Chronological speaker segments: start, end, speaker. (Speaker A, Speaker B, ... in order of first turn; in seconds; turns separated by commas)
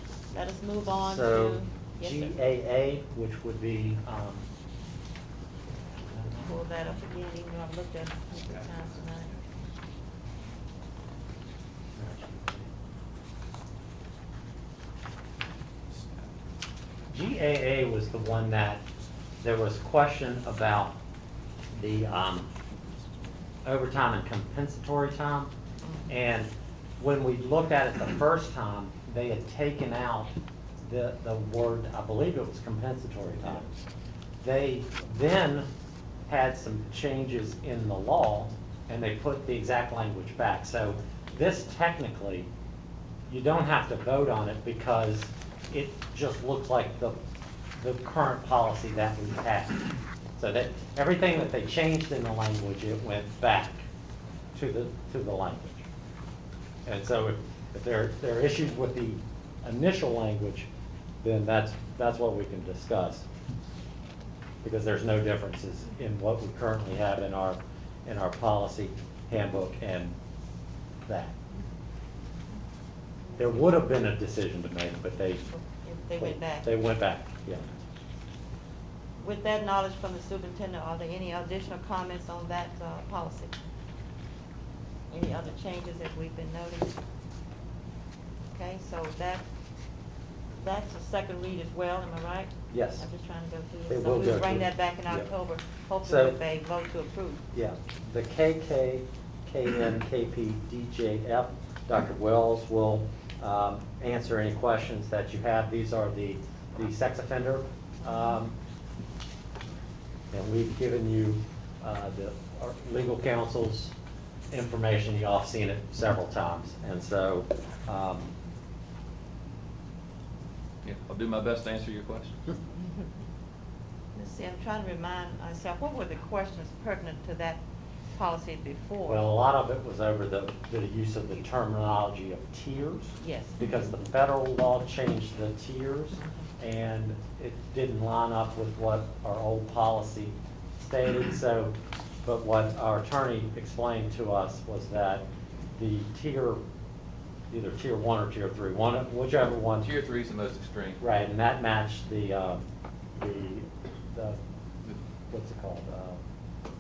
Speaker A: 0.3-2.3, Speaker B: 0.9-4.5, Speaker B: 6.1-6.5, Speaker A: 6.3-9.3, Speaker B: 12.0-12.7, Speaker C: 15.9-16.3, Speaker B: 17.1-18.8, Speaker B: 19.4-20.9, Speaker B: 21.7-22.5, Speaker B: 23.6-25.5, Speaker A: 25.8-26.1, Speaker B: 26.1-33.7, Speaker B: 34.4-35.7, Speaker B: 36.3-42.5, Speaker B: 43.3-47.2, Speaker B: 47.8-53.8, Speaker B: 54.5-55.9, Speaker B: 56.9-60.7, Speaker B: 61.2-63.2, Speaker B: 64.6-70.2, Speaker B: 71.1-71.4, Speaker A: 73.3-73.8, Speaker B: 73.3-75.4, Speaker A: 75.5-76.7, Speaker B: 76.2-77.7, Speaker A: 79.2-83.6, Speaker A: 85.1-87.0, Speaker A: 88.5-89.4, Speaker A: 90.6-97.4, Speaker B: 92.7-93.1, Speaker B: 93.8-95.3, Speaker B: 96.0-96.4, Speaker B: 97.5-108.5, Speaker B: 110.3-113.9, Speaker B: 114.5-118.3, Speaker C: 120.8-122.6, Speaker A: 124.1-127.6, Speaker A: 128.1-129.2, Speaker B: 129.0-145.3, Speaker A: 133.2-133.7, Speaker B: 145.8-146.6, Speaker B: 147.5-149.9, Speaker C: 149.8-151.0, Speaker B: 151.0-152.7, Speaker B: 153.2-154.4, Speaker B: 155.3-156.2